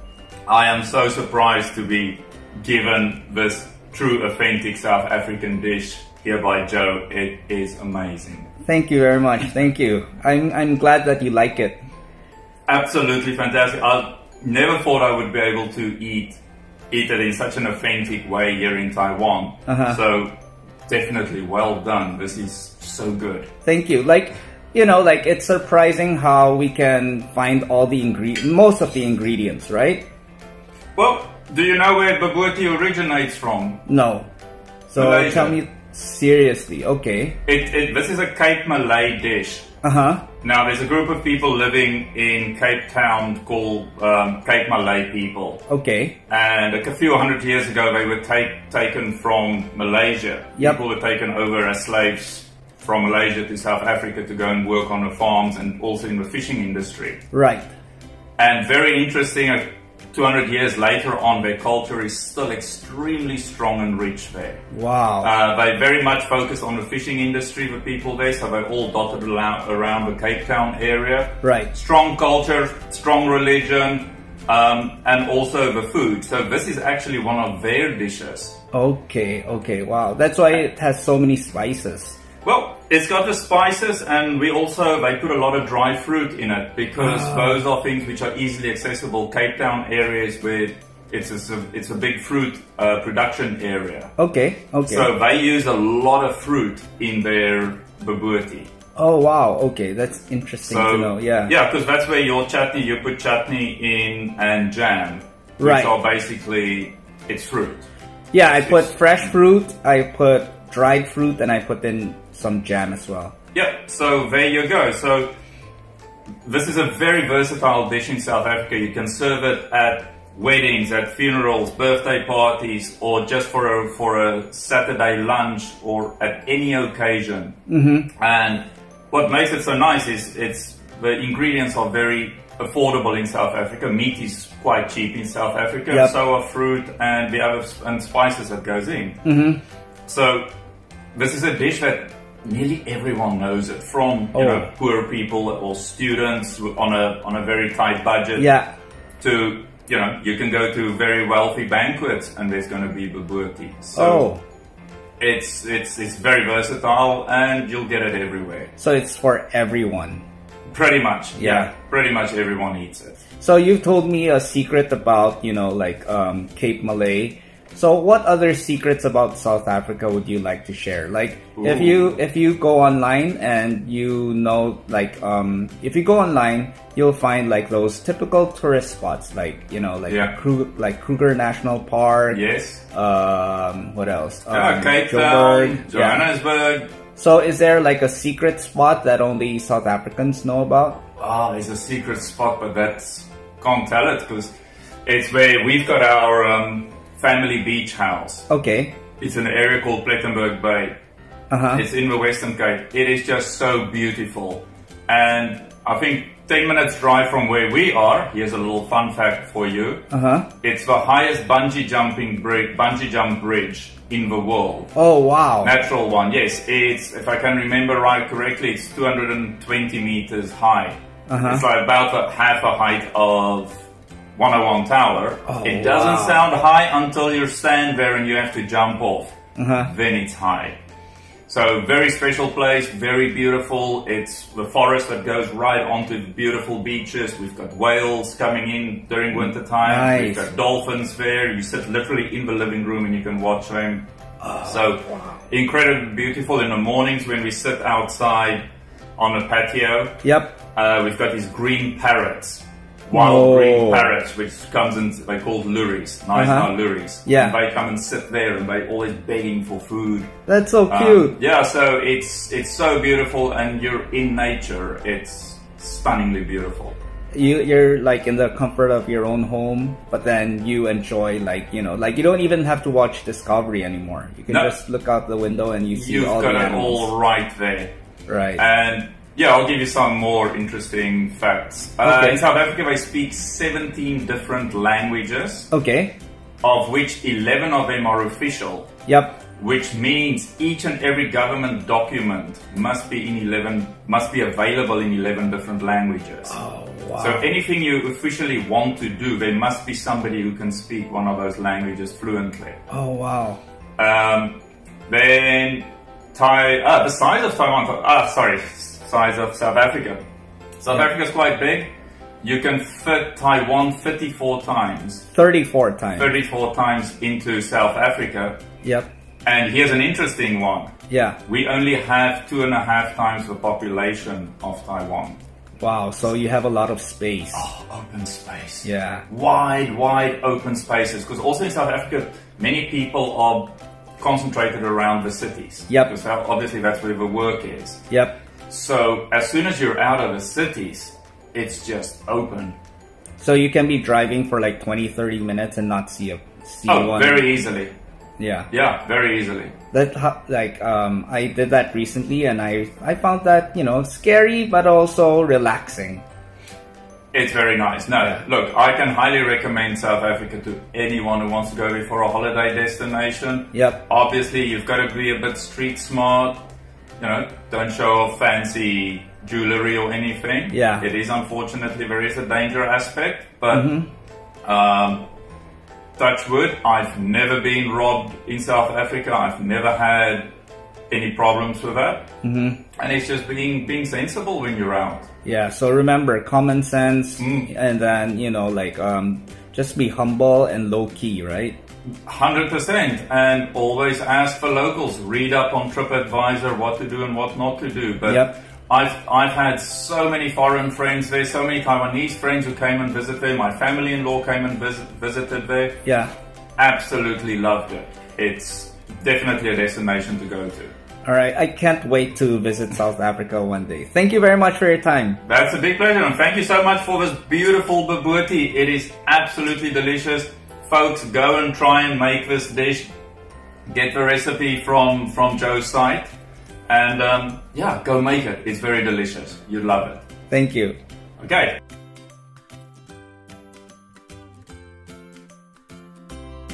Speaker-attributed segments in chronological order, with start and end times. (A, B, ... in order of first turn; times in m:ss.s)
0:00.5-0:08.5 A
0:08.6-0:11.8 B
0:12.7-0:16.4 A
0:16.9-0:20.3 A
0:19.7-0:20.0 B
0:20.9-0:23.5 A
0:23.6-0:30.1 B
0:31.0-0:33.9 A
0:33.9-0:34.3 B
0:34.9-0:37.4 B
0:35.0-0:35.6 A
0:37.4-0:39.7 A
0:39.8-0:40.2 B
0:40.4-0:45.6 A
0:45.7-0:46.2 B
0:46.3-0:57.2 A
0:57.3-0:57.7 B
0:58.4-1:04.6 A
1:04.7-1:05.3 B
1:05.2-1:18.6 A
1:11.4-1:11.7 B
1:18.7-1:22.2 B
1:22.4-1:34.1 A
1:27.0-1:27.6 B
1:34.2-1:35.1 B
1:34.8-1:38.7 A
1:39.0-1:41.5 B
1:40.6-1:49.3 A
1:45.6-1:45.9 B
1:48.3-1:53.3 B
1:53.5-1:55.3 A
1:56.4-2:07.6 A
2:07.7-2:08.1 B
2:08.2-2:19.2 A
2:15.9-2:16.2 B
2:19.2-2:19.6 B
2:20.1-2:20.5 A
2:21.1-2:28.5 A
2:24.3-2:24.7 B
2:28.4-2:28.7 B
2:29.2-2:34.3 A
2:33.9-2:34.4 B
2:35.2-2:38.7 A
2:38.8-2:40.2 B
2:40.7-2:43.2 A
2:41.3-2:41.7 B
2:43.4-3:06.2 B
2:51.6-2:52.2 A
3:00.1-3:00.3 A
3:02.3-3:02.8 A
3:04.5-3:06.9 A
3:07.2-3:11.0 B
3:11.2-3:14.5 A
3:15.0-3:18.5 A
3:18.5-3:19.0 B
3:19.2-3:21.0 A
3:21.5-3:21.8 B
3:21.7-3:30.0 A
3:30.1-3:30.5 B
3:30.6-3:34.9 A
3:34.9-3:35.8 B
3:35.6-3:50.8 A
3:41.3-3:41.6 B
3:45.4-3:46.5 B
3:49.6-3:49.9 B
3:51.5-4:04.1 A
3:59.3-4:00.5 B
4:04.4-4:05.4 B
4:04.6-4:08.6 A
4:09.2-4:10.2 A
4:10.2-4:10.6 B
4:10.7-4:20.3 A
4:13.1-4:14.1 B
4:16.3-4:16.7 B
4:17.2-4:17.6 B
4:20.5-4:21.4 B
4:20.9-4:27.0 A
4:27.3-4:37.1 B
4:34.5-4:34.8 A
4:35.9-4:37.9 A
4:38.3-4:38.6 B
4:38.6-4:45.7 A
4:42.0-4:42.4 B
4:45.7-4:46.2 B
4:46.6-4:56.6 A
4:49.1-4:49.4 B
4:56.5-4:57.5 B
4:57.2-5:02.8 A
5:02.9-5:03.6 B
5:04.0-5:10.2 A
5:10.8-5:11.9 A
5:12.4-5:15.3 A
5:15.3-5:16.3 B
5:16.2-5:18.6 A
5:18.8-5:19.1 B
5:19.4-5:20.9 A
5:21.1-5:21.4 B
5:21.4-5:25.4 A
5:25.8-5:27.7 B
5:27.5-5:38.1 A
5:28.8-5:29.2 B
5:38.1-5:38.4 B
5:38.7-5:42.8 A
5:43.4-5:47.5 B
5:46.9-5:47.9 A
5:48.4-5:48.7 B
5:48.7-5:49.7 A
5:49.9-5:56.2 B
5:57.3-6:06.6 A
5:58.2-5:58.4 B
6:03.7-6:04.0 B
6:07.2-6:13.9 A
6:10.7-6:11.1 B
6:13.7-6:14.1 B
6:14.6-6:15.3 A
6:16.2-6:20.5 A
6:21.1-6:22.3 A
6:22.4-6:22.8 B
6:23.0-6:25.3 A
6:25.4-6:31.8 B
6:27.4-6:27.7 A
6:32.2-6:46.0 A
6:38.2-6:38.5 B
6:46.0-6:46.3 B
6:46.8-6:50.9 A
6:51.2-6:55.4 B
6:55.4-7:03.1 A
7:03.9-7:06.3 A
7:06.9-7:10.2 A
7:10.5-7:11.0 B
7:11.4-7:11.8 A